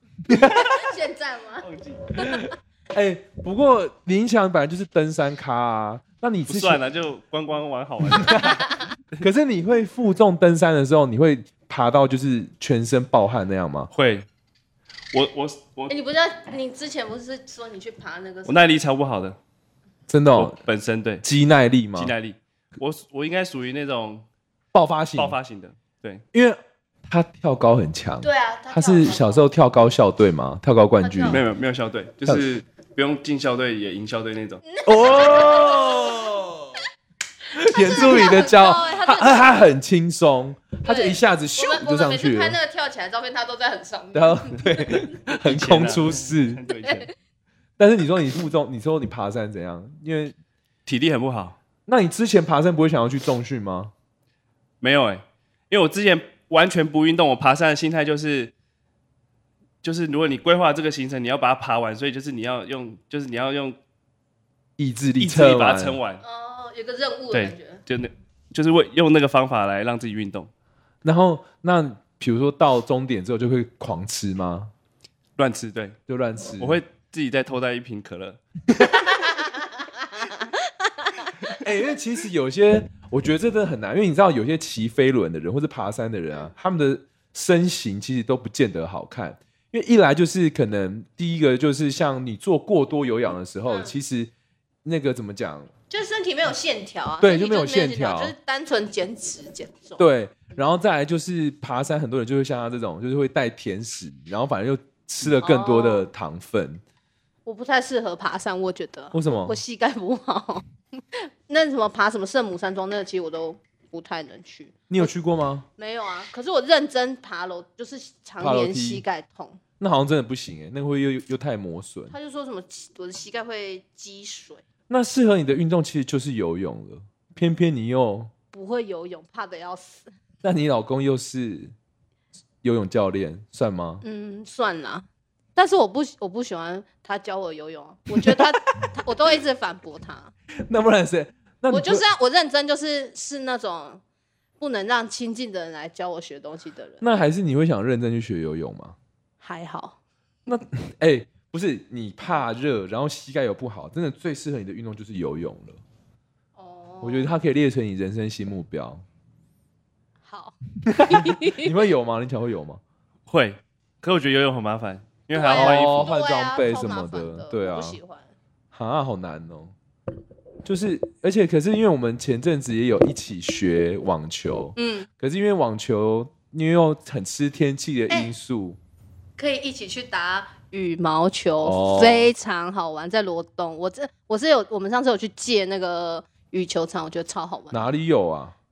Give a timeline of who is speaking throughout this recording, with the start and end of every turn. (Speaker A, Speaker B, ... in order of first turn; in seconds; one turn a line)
Speaker A: 0.3-0.8
Speaker B: 0.3-1.7
Speaker C: 1.6-2.2
Speaker B: 2.2-2.4
Speaker A: 2.2-6.8
Speaker C: 6.5-8.7
Speaker A: 8.1-8.7
Speaker A: 9.2-13.9
Speaker C: 13.9-14.2
Speaker C: 15.1-15.9
Speaker B: 15.9-18.7
Speaker C: 18.4-19.4
Speaker A: 20.1-20.6
Speaker C: 20.4-21.2
Speaker A: 21.2-22.1
Speaker C: 21.9-24.2
Speaker A: 24.7-25.4
Speaker C: 25.1-26.2
Speaker A: 26.3-31.4
Speaker B: 28.2-29.4
Speaker B: 31.0-31.4
Speaker C: 31.3-34.6
Speaker B: 34.6-36.4
Speaker A: 34.9-36.8
Speaker A: 37.5-42.5
Speaker B: 37.6-39.6
Speaker B: 40.9-45.0
Speaker A: 44.1-46.6
Speaker C: 45.5-47.1
Speaker B: 46.7-47.1
Speaker A: 47.8-50.3
Speaker C: 50.9-51.6
Speaker A: 51.9-53.9
Speaker C: 54.8-58.5
Speaker C: 59.8-63.8
Speaker A: 64.8-66.0
Speaker C: 65.2-66.2
Speaker B: 66.2-67.8
Speaker C: 67.3-70.5
Speaker A: 71.0-74.7
Speaker C: 75.4-76.0
Speaker A: 76.1-76.8
Speaker C: 76.6-78.4
Speaker B: 79.0-81.5
Speaker A: 81.5-94.3
Speaker B: 93.7-93.9
Speaker A: 94.8-95.7
Speaker B: 95.9-100.0
Speaker A: 97.2-98.3
Speaker A: 100.0-106.8
Speaker B: 105.4-106.1
Speaker B: 107.5-115.1
Speaker A: 109.1-109.6
Speaker A: 114.9-115.7
Speaker B: 115.8-119.6
Speaker A: 118.4-119.0
Speaker A: 119.8-122.1
Speaker B: 122.1-124.6
Speaker A: 124.9-128.3
Speaker B: 128.5-130.1
Speaker A: 130.4-131.7
Speaker A: 132.6-134.0
Speaker B: 134.0-140.3
Speaker A: 138.1-138.9
Speaker A: 140.7-142.0
Speaker B: 141.7-144.0
Speaker B: 144.6-147.0
Speaker A: 147.0-148.9
Speaker B: 149.4-149.9
Speaker A: 150.5-155.8
Speaker B: 156.6-157.4
Speaker A: 157.0-159.0
Speaker B: 160.2-161.7
Speaker A: 160.8-162.8
Speaker C: 163.3-166.1
Speaker B: 165.3-168.3
Speaker A: 165.5-168.0
Speaker A: 168.7-169.7
Speaker A: 170.6-178.8
Speaker B: 174.8-175.1
Speaker B: 179.4-187.9
Speaker A: 181.6-182.3
Speaker A: 187.7-188.5